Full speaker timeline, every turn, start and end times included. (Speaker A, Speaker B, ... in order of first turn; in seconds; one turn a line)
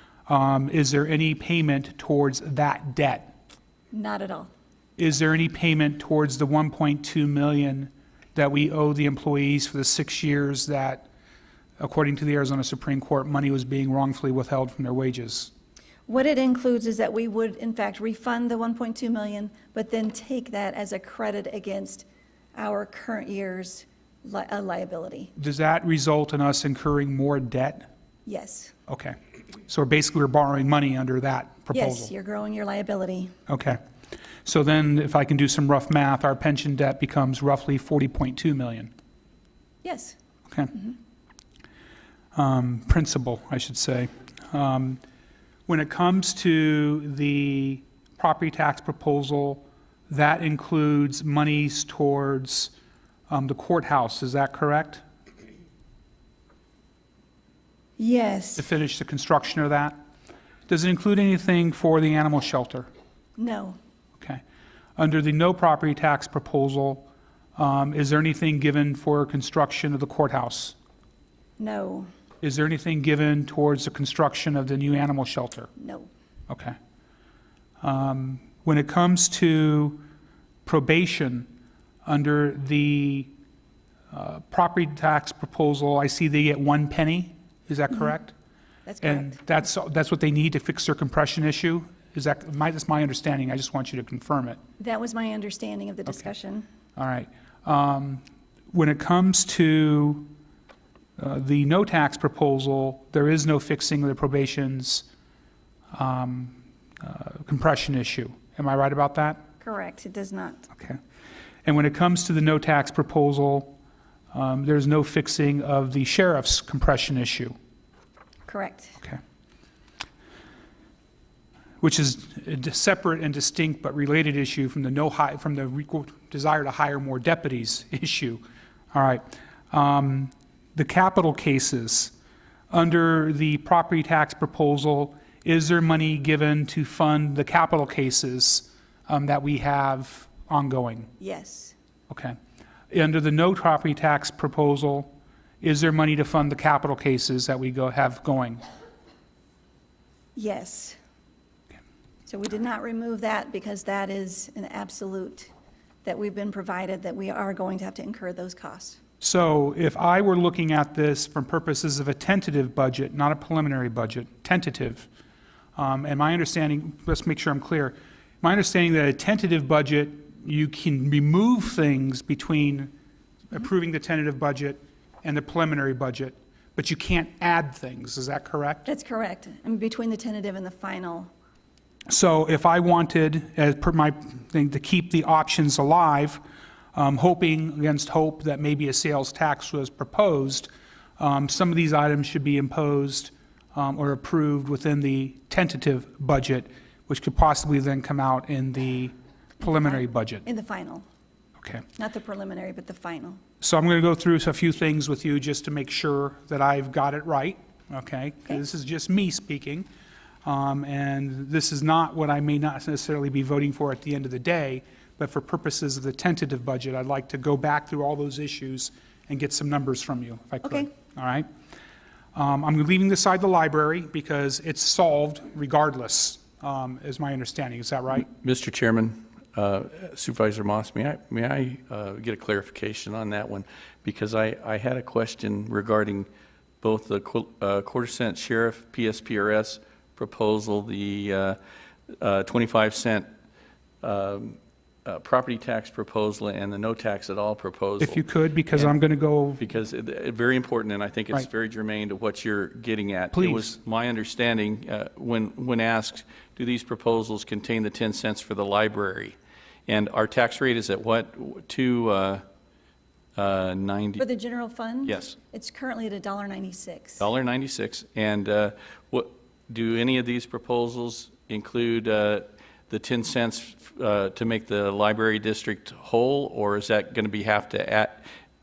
Speaker A: 0.3-3.3
Speaker B: 3.9-4.5
Speaker A: 5.0-11.1
Speaker A: 11.8-15.5
Speaker B: 16.1-25.3
Speaker A: 25.4-27.9
Speaker B: 28.2-28.7
Speaker A: 28.9-29.1
Speaker A: 29.7-32.1
Speaker B: 31.7-33.3
Speaker A: 33.5-33.8
Speaker A: 34.4-38.9
Speaker B: 39.8-40.2
Speaker A: 40.5-40.7
Speaker A: 42.3-45.0
Speaker A: 45.7-52.7
Speaker A: 53.3-55.0
Speaker B: 58.0-58.6
Speaker A: 58.6-60.0
Speaker A: 60.7-62.9
Speaker B: 63.4-63.8
Speaker A: 65.0-70.8
Speaker B: 71.6-72.1
Speaker A: 72.4-75.7
Speaker B: 75.8-76.1
Speaker A: 76.5-76.8
Speaker A: 77.8-80.0
Speaker A: 80.7-81.5
Speaker A: 82.0-83.3
Speaker A: 84.1-88.3
Speaker B: 88.9-89.4
Speaker A: 89.0-94.6
Speaker B: 94.8-96.7
Speaker A: 97.0-100.3
Speaker A: 101.2-105.0
Speaker A: 105.9-109.5
Speaker B: 109.6-110.7
Speaker A: 110.7-111.0
Speaker A: 111.6-113.8
Speaker A: 114.3-117.5
Speaker B: 118.5-119.0
Speaker A: 121.8-128.4
Speaker A: 128.9-132.1
Speaker A: 132.7-141.1
Speaker B: 141.2-141.7
Speaker A: 142.1-142.3
Speaker A: 142.9-148.6
Speaker B: 150.3-151.0
Speaker B: 152.3-155.5
Speaker B: 156.0-159.0
Speaker A: 159.2-165.1
Speaker A: 165.8-172.9
Speaker A: 173.5-178.9
Speaker B: 178.8-181.3
Speaker A: 182.1-186.4
Speaker A: 186.9-200.4
Speaker B: 199.6-201.0
Speaker B: 202.0-203.4
Speaker A: 203.6-209.9
Speaker A: 210.4-221.5
Speaker A: 222.3-228.3
Speaker C: 228.3-236.3
Speaker C: 236.8-241.6
Speaker C: 242.2-243.2
Speaker C: 244.0-248.9
Speaker A: 248.0-249.6
Speaker C: 249.6-259.4
Speaker A: 253.3-253.8
Speaker C: 259.9-262.4
Speaker C: 263.4-264.2
Speaker B: 264.2-267.3
Speaker C: 265.1-265.4
Speaker C: 267.2-278.2